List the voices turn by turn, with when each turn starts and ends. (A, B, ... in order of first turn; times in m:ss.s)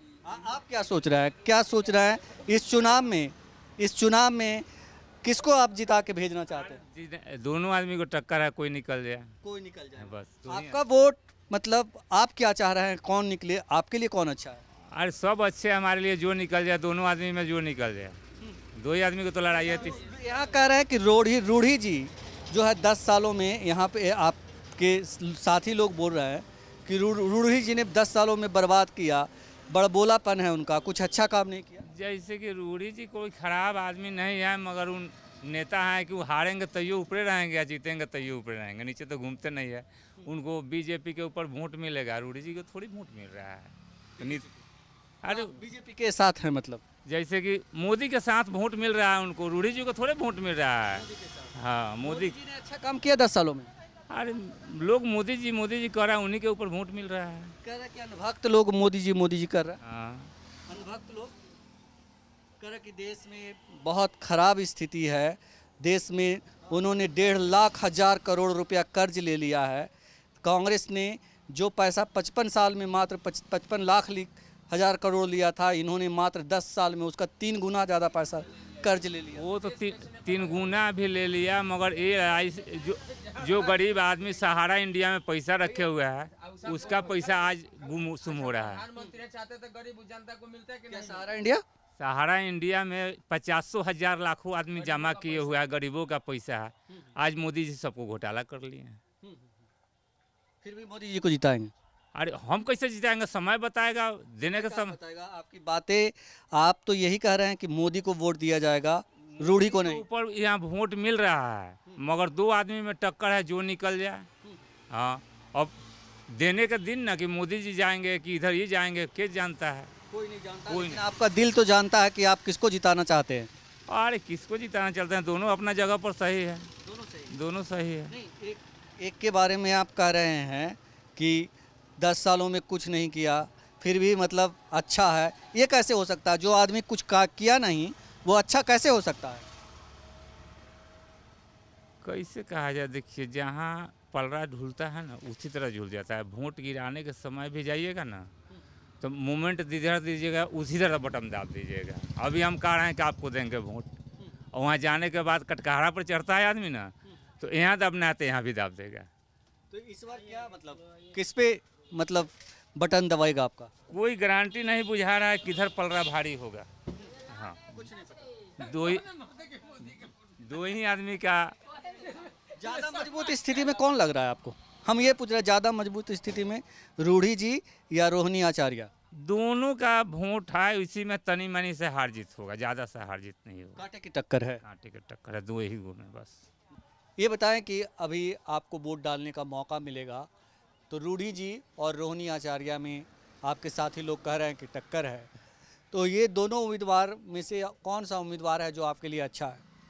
0:00.2-0:04.7 A
0:05.2-0:06.8 A
0:06.6-0:09.3 B
0:09.4-0:14.6 A
0:10.0-0:10.8 B
0:14.9-0:18.2 B
0:18.8-0:20.0 B
0:19.5-0:31.9 A
0:31.9-0:44.4 B
0:44.2-0:44.6 A
0:45.2-0:45.6 B
0:45.3-0:46.8 A
0:47.1-0:51.0 B
0:50.9-0:53.7 A
0:51.6-0:52.4 B
0:54.1-0:57.6 B
0:57.6-0:59.8 A
0:59.8-1:00.3 B
1:00.7-1:01.4 A
1:02.6-1:09.9 A
1:10.4-1:19.5 A
1:19.4-1:28.9 B
1:19.6-1:20.8 C
1:23.1-1:24.0 C
1:26.4-1:31.2 C
1:30.9-1:31.6 A
1:32.0-1:39.0 B
1:34.7-1:35.7 C
1:39.2-1:39.5 A
1:40.6-1:41.7 A
1:42.1-1:45.0 B
1:44.5-1:50.0 A
1:49.4-1:54.3 B
1:54.9-1:55.8 B
1:56.3-1:59.9 B
2:00.1-2:03.5 A
2:00.7-2:01.0 B
2:03.9-2:06.7 B
2:06.8-2:07.4 A
2:07.3-2:08.1 B
2:08.1-2:19.4 A
2:22.0-2:28.3 B
2:29.0-2:33.9 B
2:34.5-2:39.1 B
2:39.7-2:43.7 A
2:43.9-2:46.7 B
2:47.3-2:47.7 B
2:47.7-2:48.3 A
2:48.6-2:49.1 B
2:49.2-2:50.1 C
2:50.4-2:51.5 B
2:52.6-2:58.9 A
2:59.2-3:03.8 B
3:03.8-3:04.6 A
3:04.6-3:06.5 B
3:07.2-3:10.3 A
3:10.9-3:15.3 A
3:15.9-3:19.6 A